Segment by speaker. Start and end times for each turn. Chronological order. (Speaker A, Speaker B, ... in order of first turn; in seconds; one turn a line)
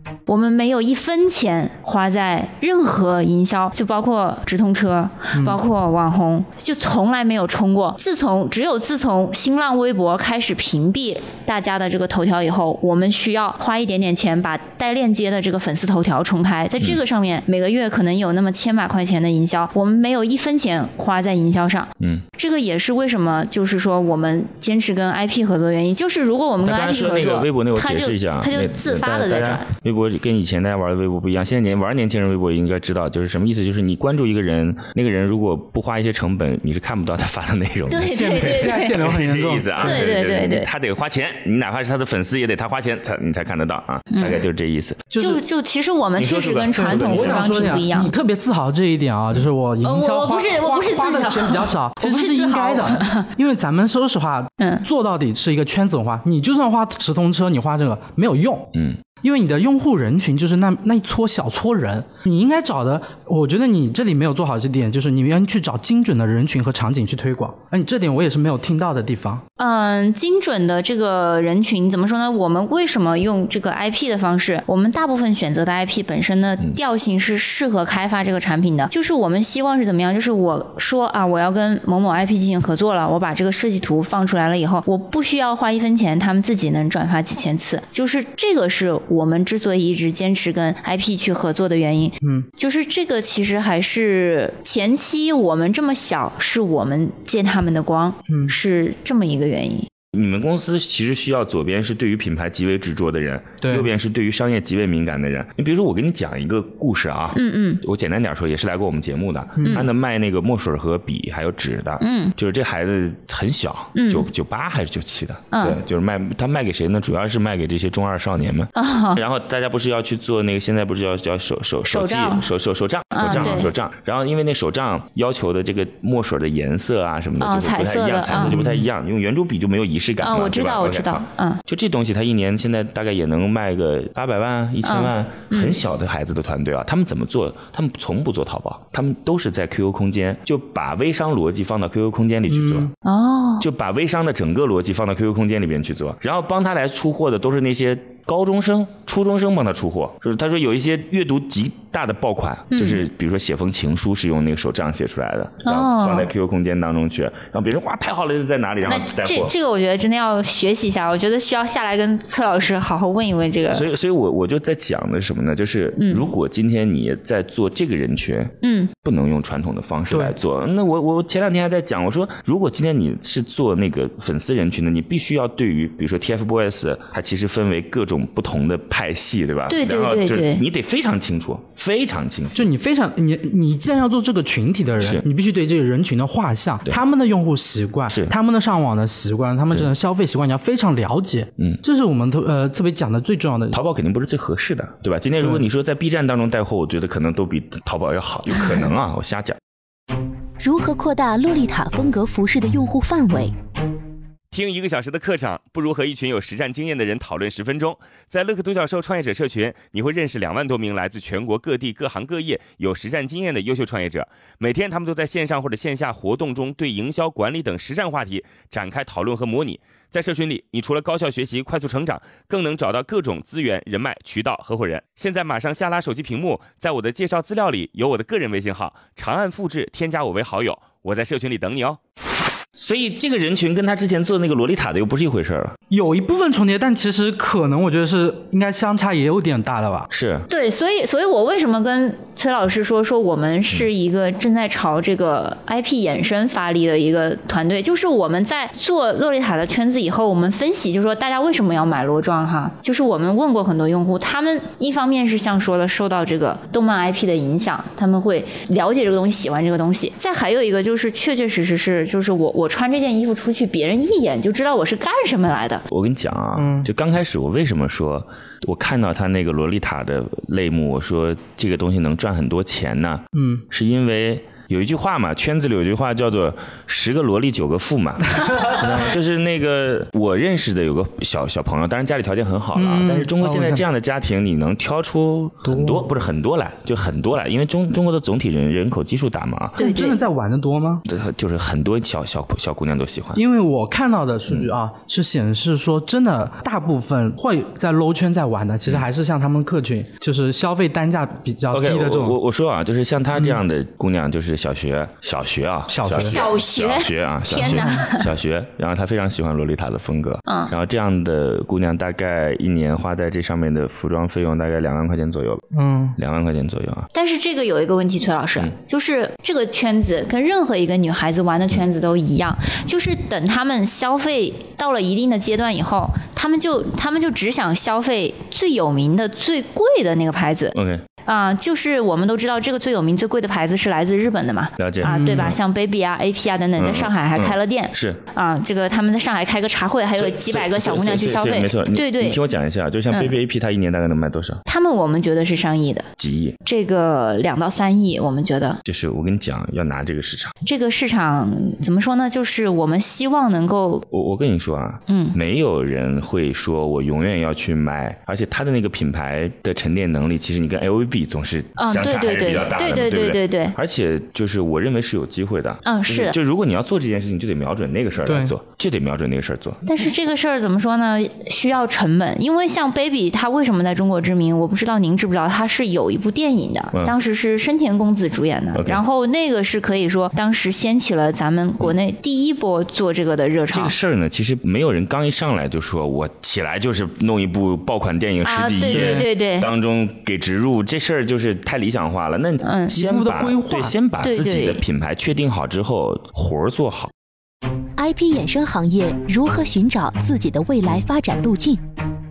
Speaker A: 0.2-29.7
Speaker B: 22.0-22.2
Speaker B: 26.6-45.0
Speaker A: 37.9-39.0
Speaker C: 38.0-40.1
Speaker A: 39.8-40.7
Speaker A: 44.1-44.4
Speaker C: 45.1-45.4
Speaker A: 45.2-48.1
Speaker B: 46.1-47.7
Speaker C: 46.7-69.4
Speaker A: 49.8-53.3
Speaker A: 54.6-54.8
Speaker A: 69.6-99.9
Speaker C: 92.2-92.5
Speaker C: 98.3-98.5
Speaker B: 100.1-142.9
Speaker C: 103.6-103.9
Speaker A: 107.3-107.8
Speaker C: 109.6-109.9
Speaker A: 109.6-109.9
Speaker A: 112.0-112.3
Speaker A: 113.9-114.3
Speaker A: 115.5-115.8
Speaker A: 118.7-119.2
Speaker A: 121.9-122.5
Speaker A: 123.1-123.7
Speaker A: 127.4-128.6
Speaker C: 128.5-128.8
Speaker A: 130.2-131.6
Speaker A: 134.8-135.8
Speaker C: 142.5-142.9
Speaker A: 143.0-143.7
Speaker B: 143.6-159.5
Speaker A: 152.7-153.0
Speaker A: 155.6-156.3
Speaker A: 158.8-163.8
Speaker B: 163.7-182.7
Speaker A: 166.0-166.3
Speaker A: 168.6-168.9
Speaker C: 170.1-170.3
Speaker A: 179.7-180.6
Speaker C: 182.5-193.8
Speaker B: 184.9-185.2
Speaker B: 188.1-188.3
Speaker B: 193.7-199.6
Speaker C: 195.4-195.7
Speaker D: 200.6-203.5
Speaker E: 204.5-232.0
Speaker B: 232.8-235.7
Speaker C: 235.9-240.1
Speaker B: 240.1-240.5
Speaker A: 240.5-265.8
Speaker B: 265.9-289.8
Speaker C: 266.5-266.9
Speaker C: 273.4-273.6
Speaker C: 278.4-279.1
Speaker C: 282.7-283.8
Speaker C: 285.6-286.1
Speaker C: 289.8-291.0
Speaker A: 289.8-290.2
Speaker B: 291.1-293.4
Speaker C: 293.3-302.4
Speaker B: 294.5-294.7
Speaker B: 301.7-315.6
Speaker C: 303.3-303.6
Speaker C: 305.9-306.4
Speaker A: 306.2-308.3
Speaker C: 307.6-308.0
Speaker A: 310.4-310.7
Speaker C: 315.7-316.2
Speaker B: 316.2-317.1
Speaker A: 317.1-342.4
Speaker B: 330.7-331.0
Speaker B: 334.8-335.6
Speaker C: 335.0-335.6
Speaker B: 336.8-338.2
Speaker B: 340.1-344.6
Speaker A: 344.6-346.1
Speaker B: 346.2-346.6
Speaker A: 346.6-348.8
Speaker B: 348.8-350.5
Speaker A: 350.6-354.0
Speaker B: 354.1-369.8
Speaker A: 355.1-355.4
Speaker A: 361.8-363.7
Speaker A: 365.8-366.4
Speaker C: 368.2-368.5
Speaker A: 369.8-383.9
Speaker B: 378.7-379.0
Speaker B: 383.7-397.1
Speaker A: 388.4-389.7
Speaker C: 388.9-389.3
Speaker A: 392.6-393.0
Speaker C: 392.9-394.0
Speaker A: 394.2-394.8
Speaker D: 398.0-401.8